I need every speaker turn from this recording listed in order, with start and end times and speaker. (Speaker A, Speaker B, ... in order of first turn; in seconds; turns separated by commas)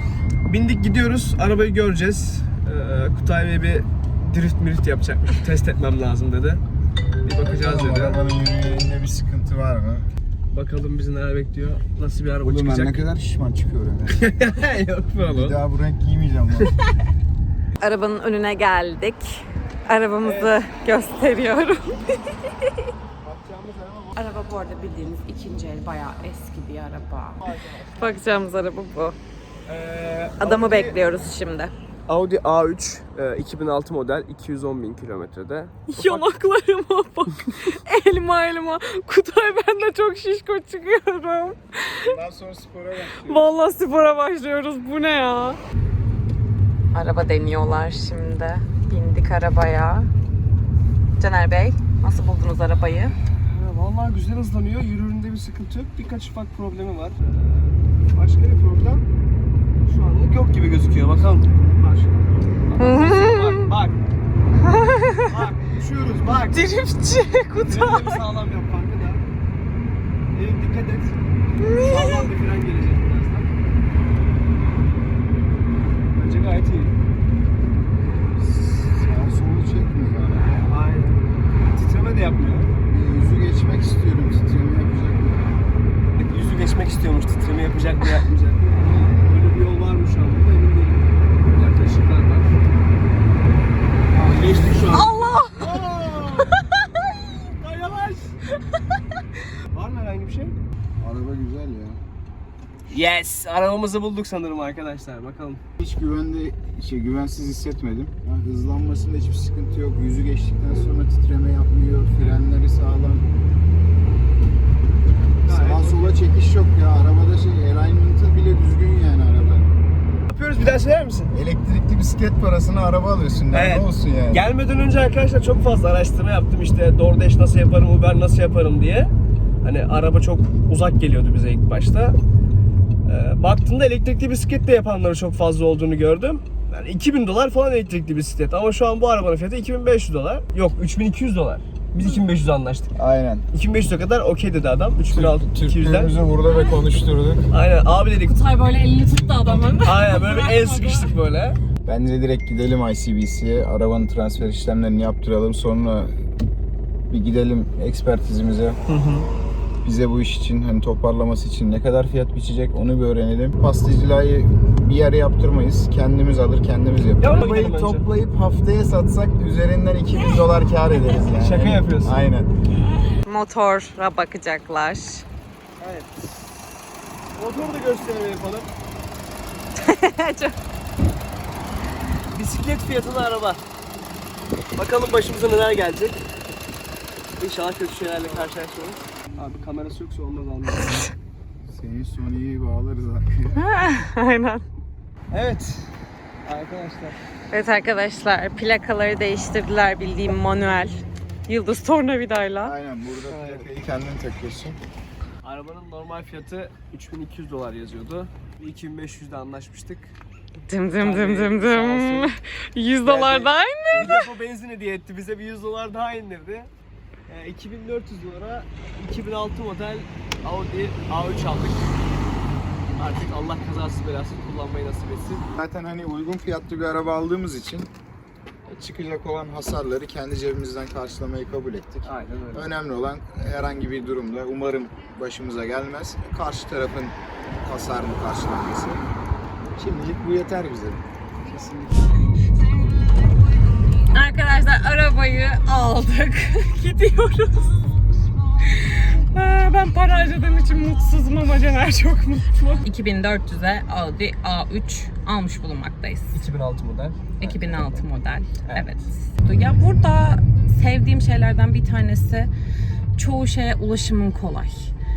Speaker A: 0.5-6.6, Speaker A: 7.2-8.2, Speaker B: 7.5-10.1, Speaker A: 10.5-13.1, Speaker B: 12.4-14.2, Speaker A: 14.2-15.6, Speaker B: 15.3-16.7, Speaker C: 17.8-22.8, Speaker A: 20.2-20.7, Speaker A: 23.2-24.2, Speaker C: 24.1-29.2, Speaker A: 27.4-28.2, Speaker A: 29.7-31.0, Speaker C: 30.4-31.7, Speaker A: 32.1-36.3, Speaker C: 35.9-42.1, Speaker B: 42.0-43.5, Speaker C: 43.1-45.6, Speaker C: 46.9-50.1, Speaker C: 51.2-53.2, Speaker A: 53.4-59.0, Speaker A: 59.9-64.0, Speaker C: 62.8-63.7, Speaker C: 64.6-65.4, Speaker A: 65.3-66.8, Speaker C: 66.5-68.3, Speaker A: 67.5-69.2, Speaker A: 70.3-73.5, Speaker C: 71.6-72.3, Speaker A: 76.1-77.0, Speaker B: 78.4-80.6, Speaker A: 80.5-81.2, Speaker A: 81.8-82.7, Speaker B: 82.9-85.5, Speaker A: 86.2-92.6, Speaker A: 94.1-98.4, Speaker C: 94.9-95.8, Speaker A: 99.7-100.5, Speaker B: 101.0-102.0, Speaker A: 102.9-105.6, Speaker B: 105.8-113.3, Speaker B: 115.4-119.7, Speaker A: 115.5-116.2, Speaker A: 120.3-121.3, Speaker B: 121.3-124.4, Speaker A: 123.5-129.1, Speaker A: 129.6-132.2, Speaker A: 133.1-142.9, Speaker B: 143.0-143.5, Speaker A: 143.5-146.2, Speaker B: 145.1-147.5, Speaker C: 146.5-146.8, Speaker A: 147.5-148.4, Speaker C: 148.2-151.2, Speaker A: 149.6-151.6, Speaker B: 151.9-156.1, Speaker B: 157.1-158.8, Speaker A: 158.9-159.3, Speaker B: 159.8-172.5, Speaker A: 167.2-168.1, Speaker A: 171.2-172.3, Speaker C: 173.2-175.2, Speaker A: 175.8-176.6, Speaker A: 177.3-178.7, Speaker C: 179.8-180.6, Speaker A: 182.3-183.6, Speaker A: 184.8-186.2, Speaker A: 187.4-191.1, Speaker B: 191.7-193.7, Speaker C: 193.6-194.6, Speaker A: 195.3-195.9, Speaker A: 196.4-197.2, Speaker C: 197.5-202.7, Speaker B: 202.6-204.8, Speaker A: 203.3-203.7, Speaker A: 205.4-210.1, Speaker C: 210.7-214.3, Speaker A: 211.0-212.3, Speaker A: 213.0-216.7, Speaker A: 217.3-221.9, Speaker A: 223.0-225.5, Speaker B: 225.5-227.9, Speaker B: 228.7-239.0, Speaker A: 232.0-232.7, Speaker B: 239.8-241.0, Speaker B: 241.6-241.9, Speaker C: 244.1-247.8, Speaker C: 248.7-256.4, Speaker A: 256.3-258.1, Speaker C: 257.4-262.5, Speaker C: 263.2-264.9